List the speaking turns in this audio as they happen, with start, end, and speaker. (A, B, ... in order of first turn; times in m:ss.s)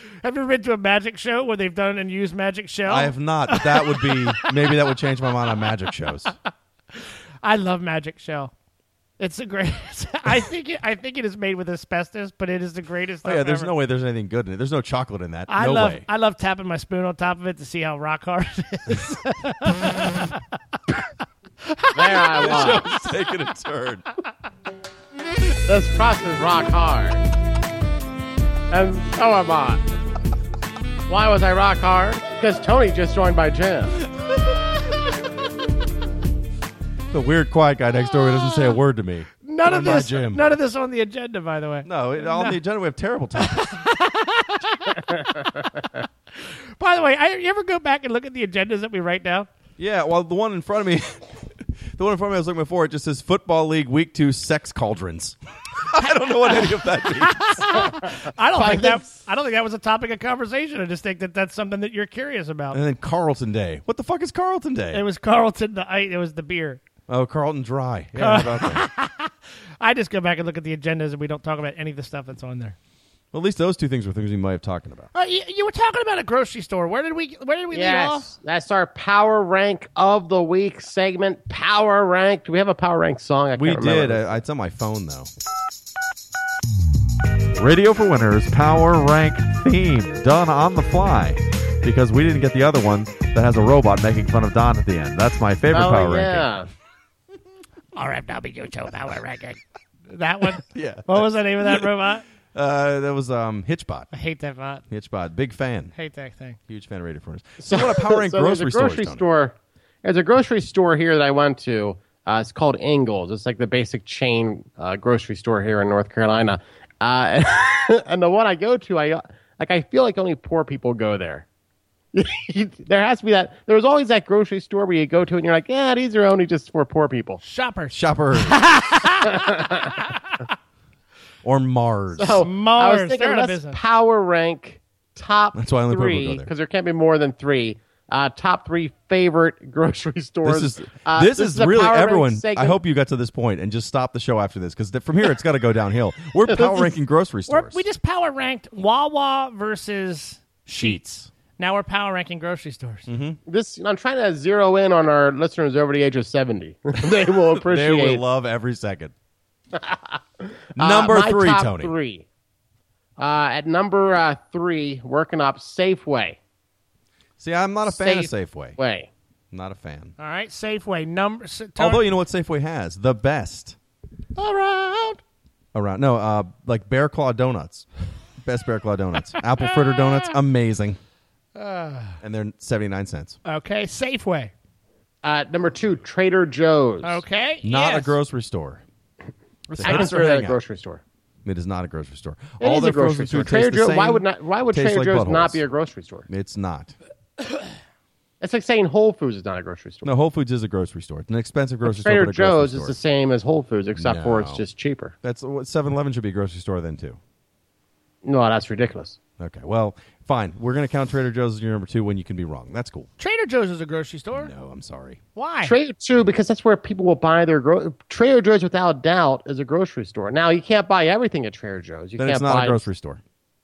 0:00.2-0:04.5 A
0:02.8-0:06.3 B
0:07.0-0:08.5 A
0:09.2-0:13.7 A
0:13.2-0:16.0 B
0:15.5-0:20.4 A
0:21.6-0:22.9 A
0:21.9-0:22.9 C
0:22.4-0:24.0 B
0:25.6-0:27.2 C
0:28.7-0:29.8 C
0:31.1-0:34.0 C
0:37.1-0:40.4 B
0:39.4-0:42.6 A
0:41.8-0:43.7 B
0:43.4-0:45.7 A
0:46.4-0:49.5 A
0:49.8-0:57.8 B
0:56.5-1:02.8 A
0:58.6-0:59.1 C
1:02.7-1:05.0 B
1:04.9-1:06.8 A
1:07.1-1:08.9 B
1:08.2-1:12.8 A
1:13.3-1:15.1 B
1:15.1-1:18.3 A
1:17.7-1:24.3 C
1:23.6-1:25.3 B
1:27.5-1:36.5 B
1:35.7-1:36.7 C
1:38.0-1:42.2 A
1:40.7-1:41.9 B
1:42.5-1:44.1 B
1:44.1-1:44.8 A
1:44.9-1:45.9 B
1:45.9-1:46.6 A
1:46.7-1:49.2 B
1:47.6-2:01.4 C
2:02.1-2:07.4 C
2:07.4-2:10.5 A
2:07.9-2:08.6 B
2:09.3-2:09.9 C
2:11.4-2:12.4 B
2:12.2-2:22.8 C
2:12.4-2:13.8 A
2:15.5-2:16.5 B
2:20.4-2:27.8 B
2:26.5-2:26.9 C
2:27.5-2:33.1 A
2:30.8-2:31.1 B
2:33.1-2:33.4 B
2:33.4-2:38.2 C
2:37.6-2:39.1 B
2:39.7-2:42.2 C
2:40.8-2:41.9 B
2:43.2-2:46.4 C
2:47.4-2:48.8 B
2:47.9-2:49.1 C
2:49.5-2:50.1 B
2:50.2-2:52.0 A
2:51.8-2:53.8 B
2:54.4-2:55.2 A
2:55.7-2:57.9 B
2:58.4-3:01.0 B
2:59.4-3:00.4 A
3:01.6-3:02.2 A
3:02.2-3:03.4 B
3:03.4-3:04.5 A
3:05.2-3:07.2 C
3:07.0-3:08.2 A
3:07.6-3:08.8 B
3:09.7-3:10.2 A
3:09.7-3:10.6 B
3:09.8-3:11.0 C
3:11.4-3:15.6 B
3:12.6-3:16.3 C
3:16.3-3:16.9 B
3:18.4-3:20.1 C
3:20.0-3:22.9 B
3:21.8-3:25.1 C
3:24.0-3:24.6 B
3:25.2-3:27.2 B
3:28.2-3:29.2 C
3:29.4-3:33.1 B
3:33.2-3:34.5 A
3:34.3-3:35.2 B
3:35.4-3:35.7 A
3:35.6-3:42.8 C
3:42.2-3:43.2 B